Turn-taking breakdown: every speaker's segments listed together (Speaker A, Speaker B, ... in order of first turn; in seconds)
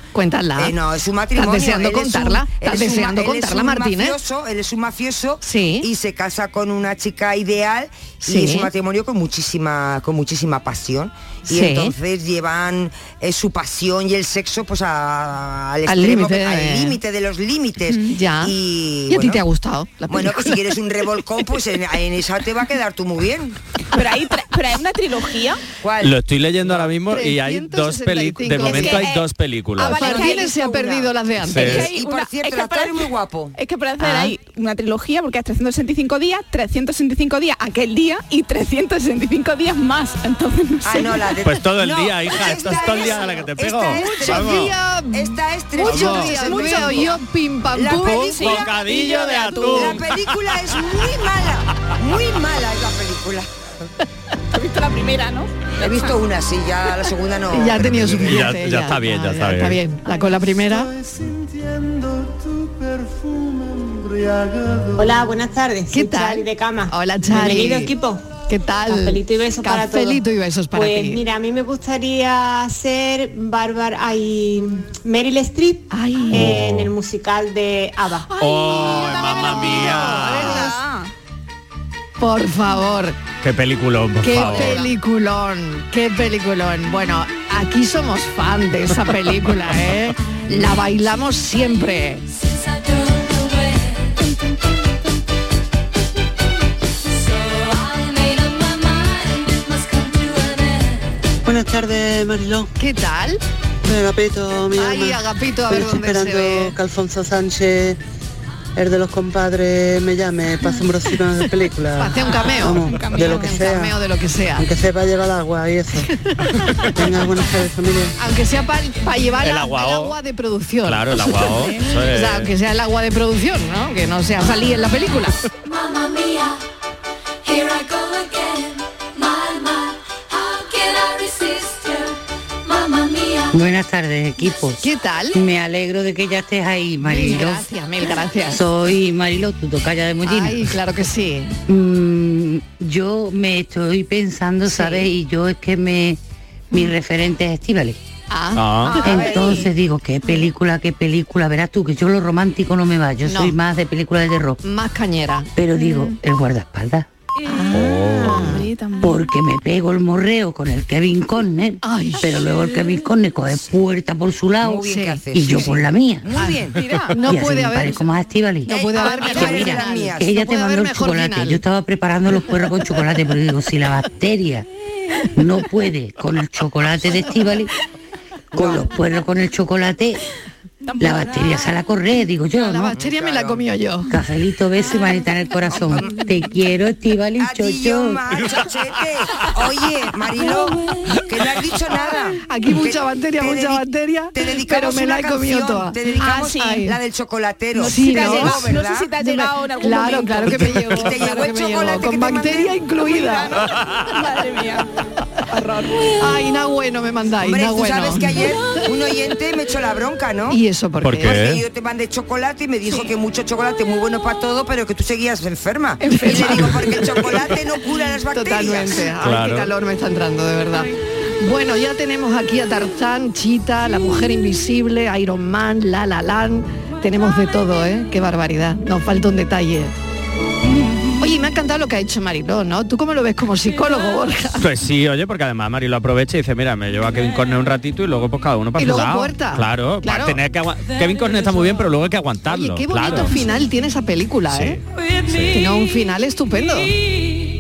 Speaker A: 0.1-0.8, 1.4-4.2, 5.4-5.9, 8.2-8.7, 11.5-11.9, 15.9-17.0, 18.0-18.5, 19.1-20.6, 26.8-29.1, 29.8-31.9, 34.0-34.3, 43.9-48.4, 57.5-60.9, 65.9-68.0, 68.5-71.2, 75.9-76.6, 78.3-80.8, 82.2-83.2, 84.2-92.2, 102.8-103.4, 104.7-106.8, 112.0-114.7, 116.0-116.9, 118.2-125.4, 134.8-135.4, 137.0-138.6, 140.2-141.5, 144.7-145.1, 148.3-149.6, 153.2-153.6, 154.6-155.5, 157.5-158.7, 161.8-162.4, 164.8-165.2, 166.4-166.6, 167.1-168.1, 168.7-171.6, 182.6-184.1, 192.5-197.0, 197.8-198.6, 199.2-203.6, 206.2-208.3, 210.5-211.4, 216.1-217.1, 218.3-229.9, 231.2-234.6, 238.8-240.4, 242.5-244.8, 245.5-246.9
Speaker B: 0.6-19.4, 20.1-23.6, 25.8-26.2, 30.0-30.5, 31.6-33.5, 40.8-47.1, 47.7-53.5, 55.8-58.2, 148.8-149.7, 164.6-166.8, 168.7-170.3, 178.6-178.8, 182.9-183.6, 185.7-186.2, 187.4-199.1, 200.8-203.5, 207.4-210.6, 211.2-219.1
Speaker C: 23.9-25.6, 28.6-29.3, 29.8-31.1, 31.6-41.3, 46.3-47.2, 48.3-50.0, 54.5-56.2, 79.2-81.1, 84.5-84.9, 112.2-113.6, 121.5-121.8, 155.7-156.2, 158.3-159.2, 166.7-167.3, 180.8-181.7, 196.2-196.8, 197.8-200.9, 203.5-204.9, 205.5-206.1, 212.9-213.1, 216.0-216.6
Speaker D: 26.0-30.0, 31.4-31.9, 41.4-44.7, 45.9-46.3, 48.4-50.0, 57.8-59.8, 76.4-76.9, 78.4-80.7, 83.4-84.9, 119.4-120.2, 120.8-122.5, 148.6-149.0, 157.7-158.4, 211.0-211.6, 219.2-219.7, 234.6-243.3, 244.5-245.6
Speaker E: 60.6-65.0, 101.5-102.7, 103.9-108.0, 108.8-113.9, 114.6-116.0, 117.0-118.1
Speaker F: 65.0-68.2, 68.9-70.2, 70.7-78.3
Speaker G: 92.3-94.2, 97.1-101.1, 125.6-126.6, 127.4-133.6
Speaker H: 133.5-134.8, 135.3-137.7, 138.5-140.7, 141.7-146.2, 146.7-148.0, 148.9-154.6, 155.6-157.1, 159.0-166.3, 167.2-174.7, 175.3-177.7, 178.5-180.2, 181.0-182.9, 184.1-188.2